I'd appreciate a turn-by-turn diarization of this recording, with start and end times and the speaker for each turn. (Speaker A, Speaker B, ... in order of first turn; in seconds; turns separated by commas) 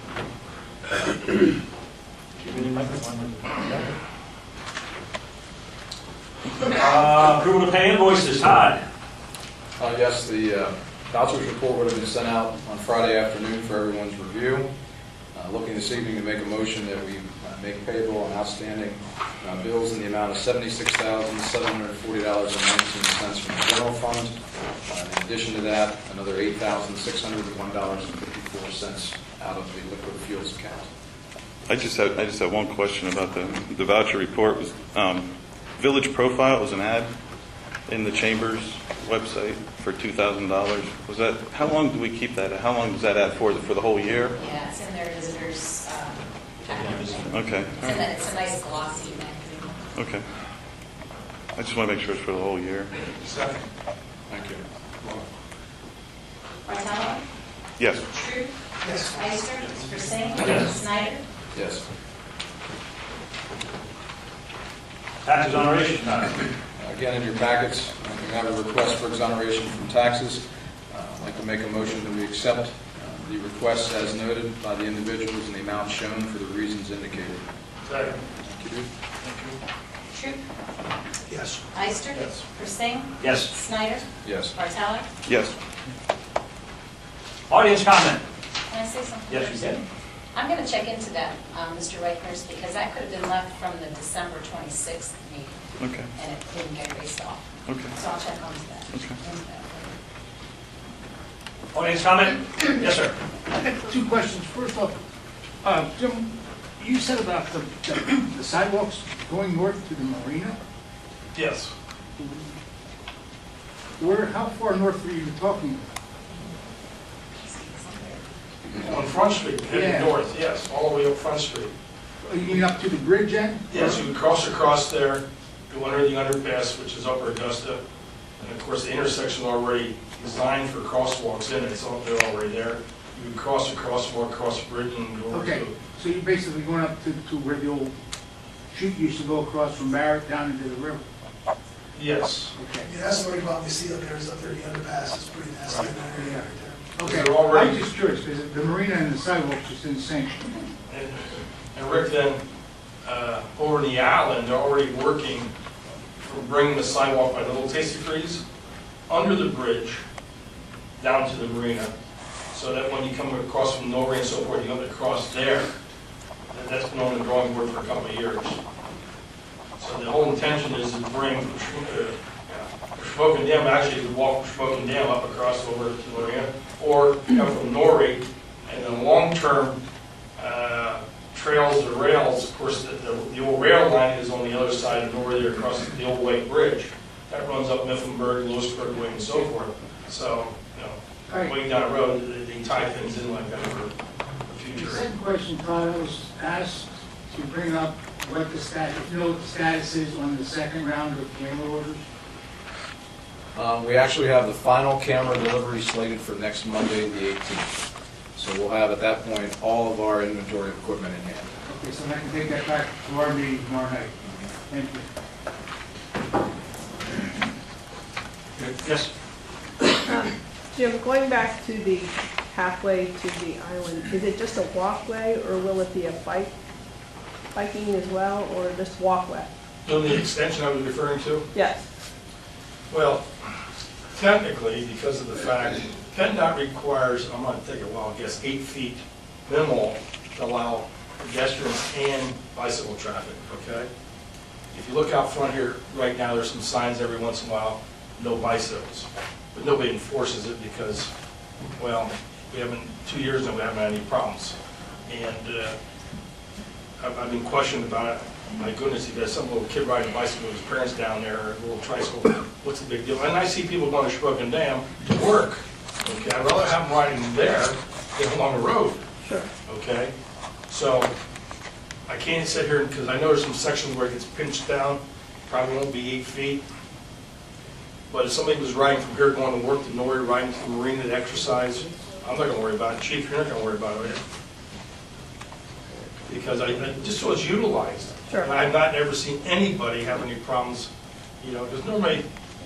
Speaker A: 2.4-3.8, Speaker A: 6.7-8.8, Speaker B: 9.8-14.7, Speaker B: 15.3-24.3, Speaker B: 24.9-30.9, Speaker C: 31.6-37.1, Speaker C: 37.9-44.3, Speaker D: 44.4-49.9, Speaker C: 47.2-48.0, Speaker C: 49.9-50.2, Speaker C: 51.5-52.9, Speaker E: 53.2-53.6, Speaker B: 54.3-54.6, Speaker D: 56.6-57.2, Speaker C: 57.8-58.0, Speaker D: 58.1-58.5, Speaker E: 58.8-59.2, Speaker D: 59.1-61.2, Speaker A: 60.4-60.7, Speaker B: 61.5-61.8, Speaker A: 65.2-66.4, Speaker B: 66.8-77.4, Speaker F: 77.9-78.2, Speaker B: 78.4-78.9, Speaker F: 79.2-79.5, Speaker D: 80.1-80.4, Speaker E: 81.3-81.6, Speaker D: 81.7-85.1, Speaker F: 82.1-82.4, Speaker A: 83.2-83.5, Speaker B: 84.2-84.5, Speaker C: 85.2-85.5, Speaker A: 87.5-88.2, Speaker D: 88.7-89.8, Speaker A: 89.3-89.8, Speaker D: 90.3-95.6, Speaker C: 95.8-96.1, Speaker D: 96.2-99.9, Speaker C: 97.7-97.9, Speaker C: 98.9-99.2, Speaker A: 101.7-103.2, Speaker G: 103.5-104.9, Speaker G: 105.6-110.5, Speaker F: 111.3-111.7, Speaker G: 112.2-112.5, Speaker G: 114.0-115.8, Speaker D: 117.4-118.2, Speaker F: 118.8-121.7, Speaker G: 119.7-120.1, Speaker G: 122.2-123.9, Speaker F: 123.7-127.8, Speaker F: 128.4-135.8, Speaker G: 135.3-137.9, Speaker G: 138.7-141.0, Speaker F: 141.9-142.5, Speaker G: 142.6-142.9, Speaker E: 142.8-146.9, Speaker G: 146.2-150.6, Speaker F: 147.0-147.8, Speaker F: 150.9-152.4, Speaker F: 153.0-155.5, Speaker F: 156.2-158.4, Speaker F: 159.1-160.0, Speaker F: 161.0-161.9, Speaker F: 162.5-165.7, Speaker F: 166.5-168.6, Speaker F: 169.8-179.8, Speaker F: 180.4-193.9, Speaker G: 191.3-191.5, Speaker F: 194.5-195.1, Speaker G: 194.7-202.0, Speaker B: 203.5-207.7, Speaker B: 208.3-211.5, Speaker G: 211.7-214.1, Speaker G: 214.7-215.0, Speaker H: 220.1-226.5, Speaker H: 227.5-229.5, Speaker F: 229.8-231.5, Speaker H: 231.5-231.8, Speaker F: 232.9-233.3, Speaker F: 234.1-243.9, Speaker F: 244.7-251.1, Speaker F: 251.8-254.5, Speaker F: 255.1-255.8, Speaker F: 257.0-269.0, Speaker H: 269.2-269.5, Speaker F: 269.7-270.1, Speaker F: 270.7-271.1, Speaker F: 272.1-276.6, Speaker F: 278.1-284.2, Speaker F: 286.3-292.2